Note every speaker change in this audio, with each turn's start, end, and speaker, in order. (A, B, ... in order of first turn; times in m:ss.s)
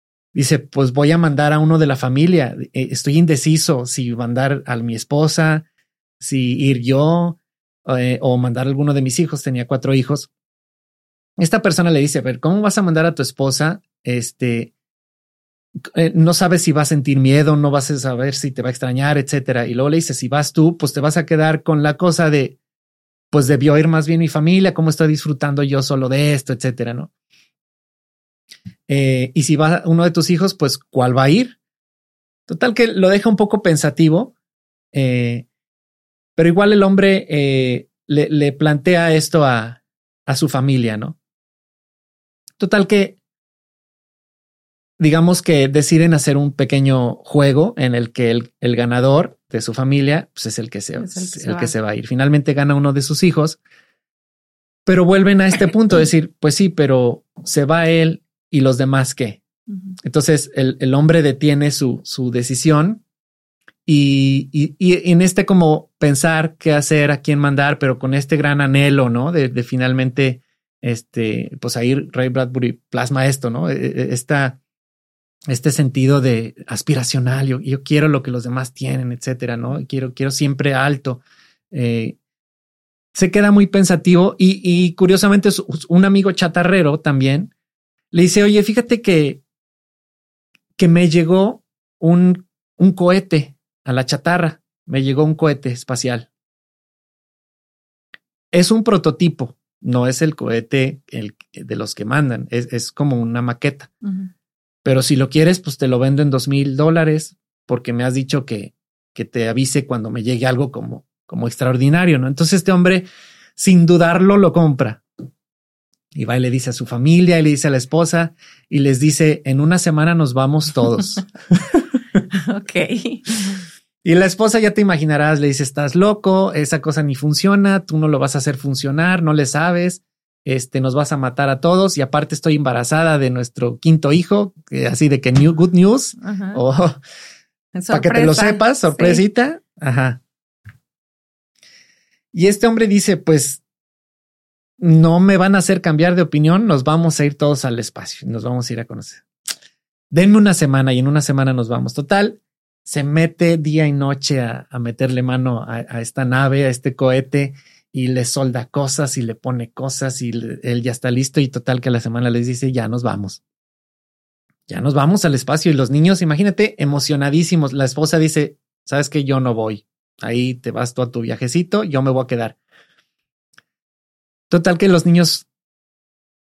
0:00.3-0:05.6 A
0:06.2-0:10.3 A
0:11.4-0:14.7 A
0:15.9-0:22.6 A
0:23.3-0:27.1 A
0:28.9-0:31.6 A
0:32.5-0:34.3 A
0:34.9-0:35.4 A
0:36.4-0:41.2 A
0:42.6-0:43.2 A
0:45.0-0:53.6 A
0:51.0-0:51.7 B
0:54.8-0:59.4 A
1:00.0-1:03.0 A
1:03.8-1:14.6 A
1:15.5-1:22.2 A
1:23.1-1:27.5 A
1:28.1-1:29.4 A
1:30.8-1:36.3 A
1:38.5-1:43.9 A
1:44.0-1:44.3 B
1:44.8-1:53.0 A
1:53.6-1:55.0 A
1:56.1-2:01.8 A
2:02.3-2:03.6 B
2:04.0-2:17.0 A
2:16.2-2:16.6 B
2:17.7-2:19.2 B
2:17.9-2:20.2 A
2:22.3-2:23.6 A
2:24.8-2:29.2 A
2:30.1-2:43.4 A
2:44.7-2:52.6 A
2:54.5-2:55.4 A